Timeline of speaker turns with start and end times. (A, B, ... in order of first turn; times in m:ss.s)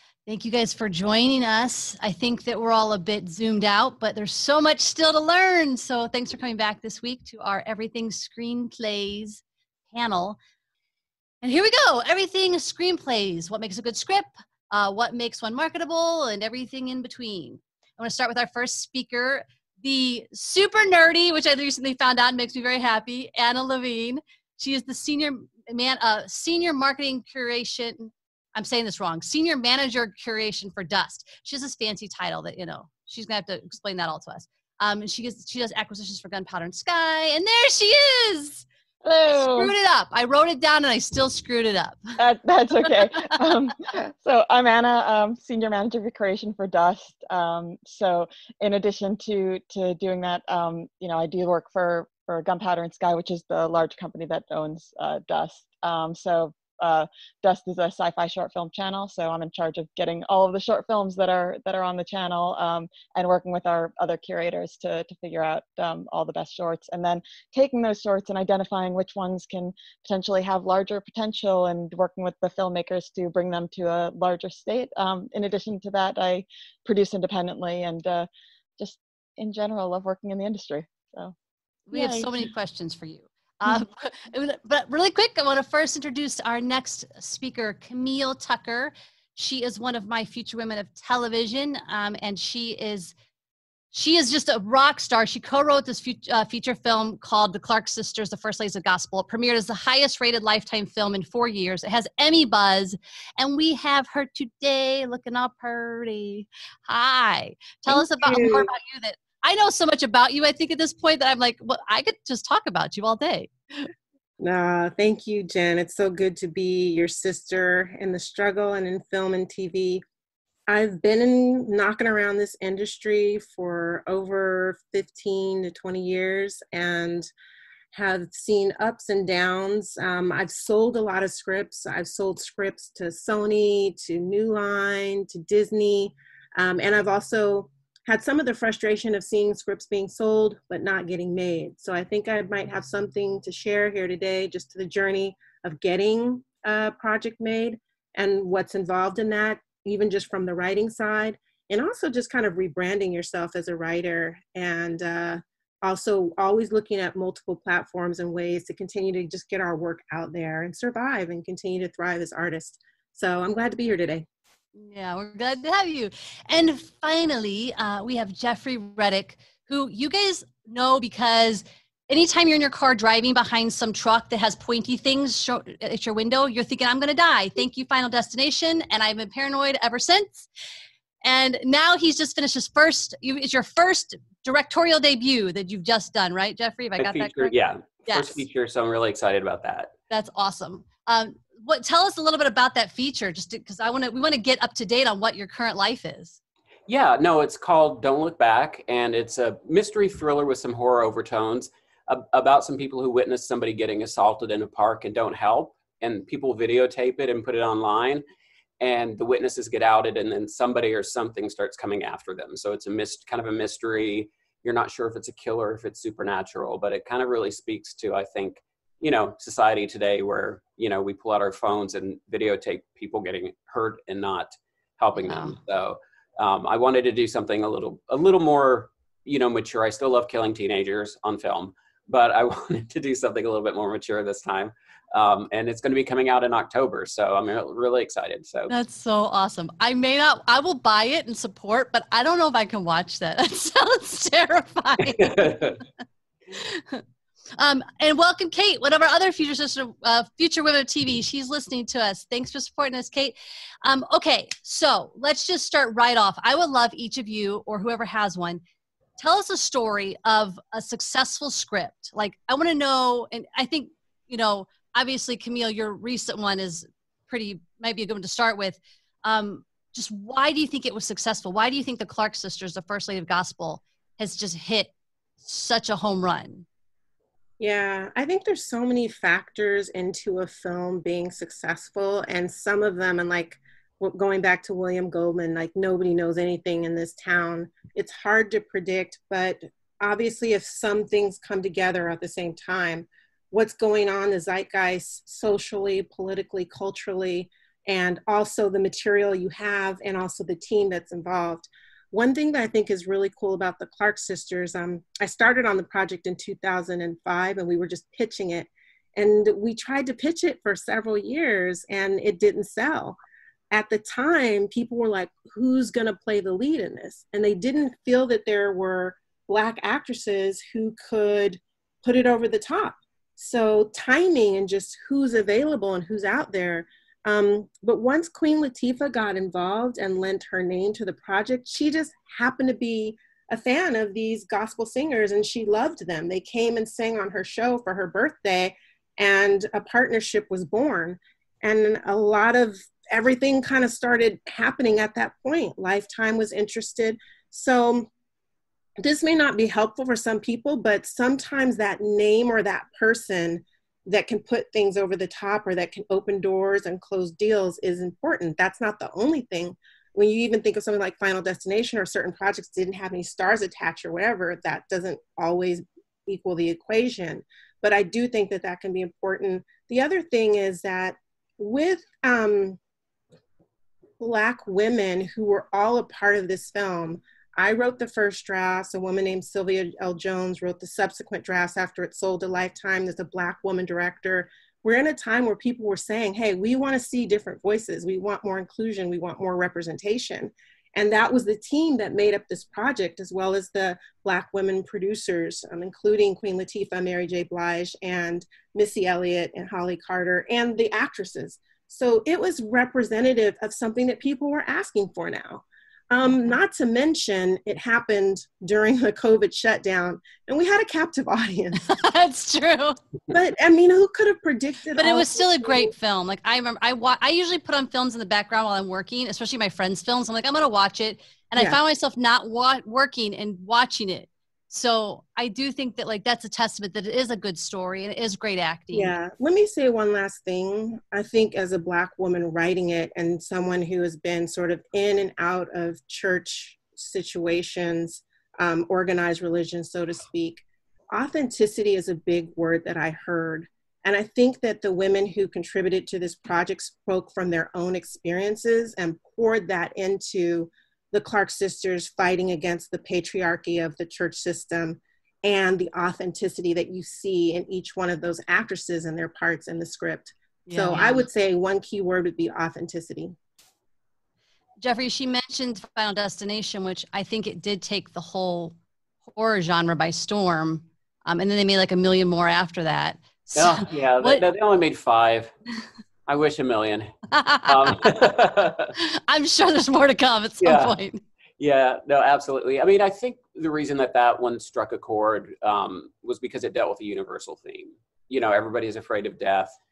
0:00.3-0:10.4 A
0:11.4-0:38.7 A
0:39.0-0:39.7 B
0:39.3-0:42.2 A
0:42.2-1:18.3 B
1:18.8-1:21.4 B
1:21.9-1:33.1 A
1:21.9-1:22.3 B
1:33.9-1:53.9 A
1:47.9-1:48.7 C
1:54.4-2:00.0 C
2:00.7-2:07.3 C
2:07.9-2:44.3 C
2:44.8-3:00.5 A
3:01.2-3:07.5 A
3:07.0-3:09.9 D
3:08.0-3:08.4 A
3:10.1-3:16.4 A
3:16.9-3:28.2 D
3:28.8-3:58.7 D
3:45.2-3:45.6 A
3:58.7-4:05.7 A
4:05.2-4:05.8 D
4:06.5-4:07.0 A
4:07.6-4:18.6 A
4:19.2-4:36.7 A
4:37.6-5:13.2 C
5:13.7-5:48.1 C
5:49.0-6:12.8 C
6:14.2-6:51.9 C
6:51.8-6:53.0 A
6:53.3-6:55.9 C
6:55.0-7:09.1 A
7:08.9-7:43.4 C
7:40.7-7:41.3 A
7:44.8-7:48.8 A
7:49.3-7:54.4 A
7:53.6-7:55.5 D
7:56.3-7:57.1 D
7:57.3-7:58.0 A
7:57.7-7:58.9 D
7:59.0-8:01.2 A
8:00.6-8:01.0 D
8:01.6-8:09.7 D